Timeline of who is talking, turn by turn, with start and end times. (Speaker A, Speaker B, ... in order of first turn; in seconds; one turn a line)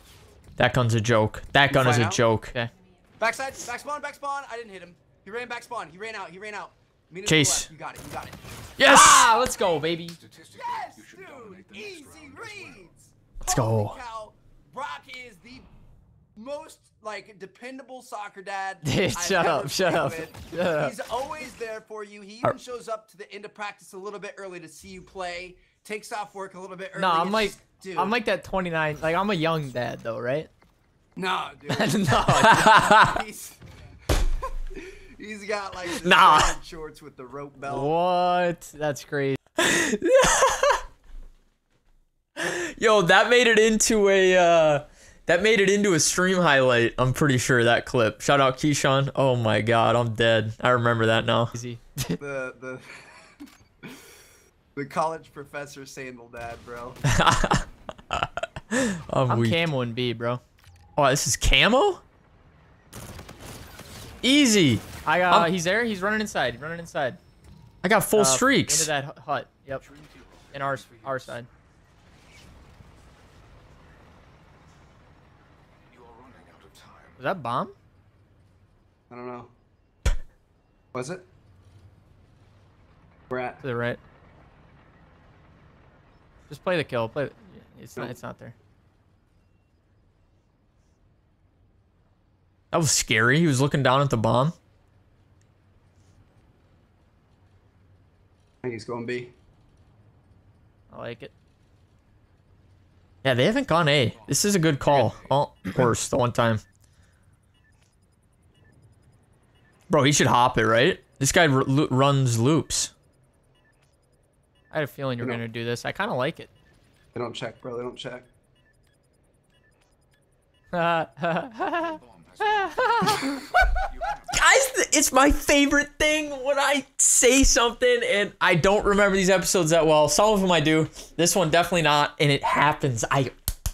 Speaker A: 0.6-2.5
Speaker B: 1.7-2.2
Speaker B: 3.2-8.4
Speaker A: 7.2-7.7
Speaker A: 8.8-9.3
Speaker C: 8.8-10.2
Speaker D: 10.1-12.9
Speaker B: 10.5-15.7
Speaker A: 13.4-13.9
Speaker B: 16.4-28.1
Speaker C: 18.8-20.9
Speaker C: 26.9-30.5
Speaker B: 31.1-37.9
Speaker C: 31.7-32.8
Speaker A: 35.9-36.5
Speaker C: 37.6-39.4
Speaker A: 39.6-40.8
Speaker A: 42.4-51.5
Speaker C: 51.5-52.2
Speaker B: 52.2-54.0
Speaker B: 54.7-57.0
Speaker A: 57.1-59.6
Speaker C: 59.3-60.4
Speaker A: 61.0-62.0
Speaker A: 64.2-65.5
Speaker C: 65.0-67.2
Speaker A: 67.8-68.9
Speaker C: 68.1-69.8
Speaker D: 69.8-71.4
Speaker C: 70.5-71.5
Speaker D: 75.9-77.2
Speaker C: 77.2-77.7
Speaker B: 79.1-79.5
Speaker B: 80.9-81.2
Speaker B: 83.3-83.6
Speaker C: 83.6-84.0
Speaker C: 86.5-88.5
Speaker A: 92.7-94.5
Speaker B: 98.6-99.3
Speaker C: 100.9-101.3
Speaker A: 103.2-106.6
Speaker D: 104.1-105.0
Speaker C: 104.9-105.3
Speaker A: 109.9-112.9
Speaker C: 114.7-116.5
Speaker B: 117.1-118.2
Speaker C: 120.7-123.5
Speaker D: 121.8-124.4
Speaker A: 124.3-133.3